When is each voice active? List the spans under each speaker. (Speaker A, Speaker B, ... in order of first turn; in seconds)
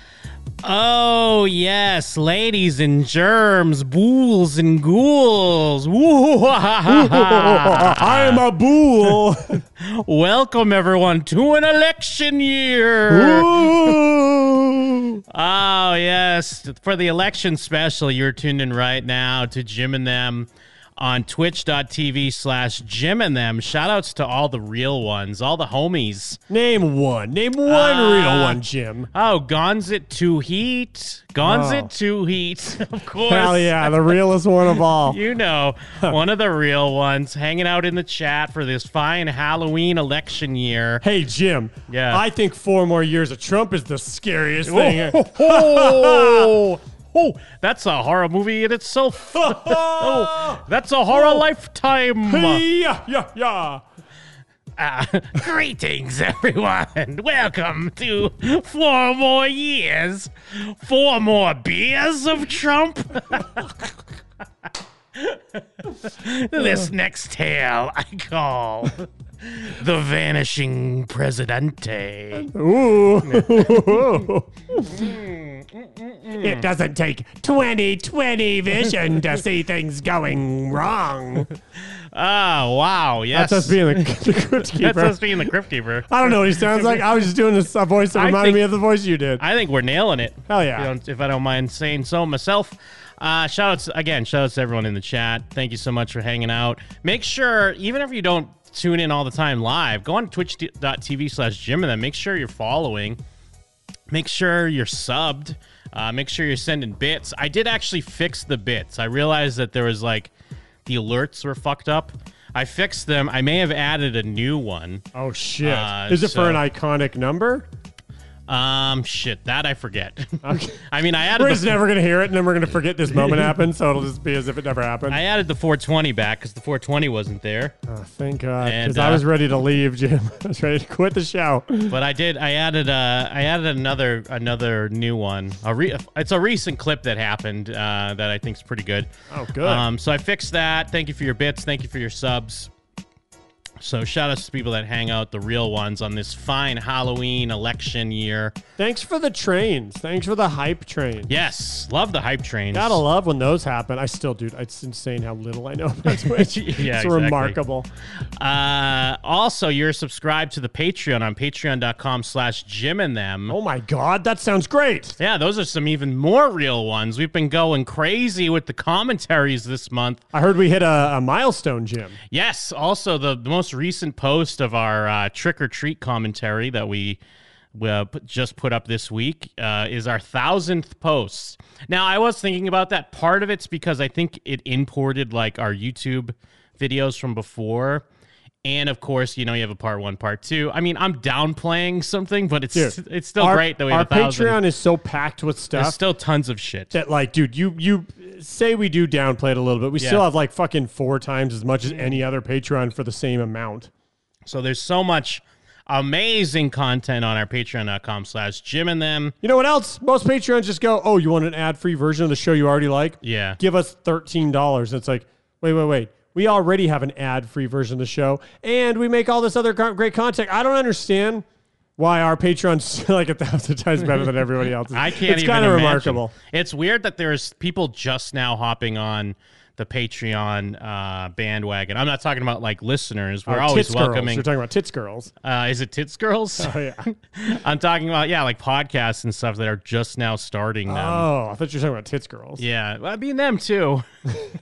Speaker A: 0.6-8.4, 9.8-13.7, 15.3-26.4, 27.7-28.6, 29.1-34.2, 35.0-41.0, 41.9-42.2, 44.6-52.6, 54.8-63.7, 65.2-72.5, 73.2-74.1, 74.9-76.6, 82.1-87.3, 88.1-88.7, 89.4-103.2, 104.1-110.3, 110.8-115.0, 115.6-116.6, 118.5-121.8, 125.1-127.8, 128.6-129.2, 131.9-139.1, 139.6-142.7, 143.8-148.6, 151.3-153.0, 156.1-157.6, 158.4-163.6, 165.2-170.2, 172.3-177.2, 177.7-188.0, 188.7-194.6, 195.7-196.9, 201.9-202.2, 204.5-209.3, 213.2-213.6, 224.9-234.4, 235.4-241.3, 242.6-244.1
Speaker B: 6.9-9.6, 13.1-15.2, 26.5-29.1, 31.4-31.9, 33.3-35.2, 41.0-46.5, 49.4-51.5, 52.2-53.8, 66.6-66.8, 72.3-75.0, 76.4-81.5, 83.3-85.2, 86.1-89.4, 90.5-90.9, 115.1-117.7, 120.4-120.8, 121.3-125.2, 127.9-132.0, 139.3-139.9, 148.8-151.4, 152.7-157.9, 163.5-165.2, 170.3-172.2, 192.7-196.0, 196.9-203.9, 209.4-221.4, 222.0-226.3, 233.5-235.3, 236.6-237.1, 240.9-242.6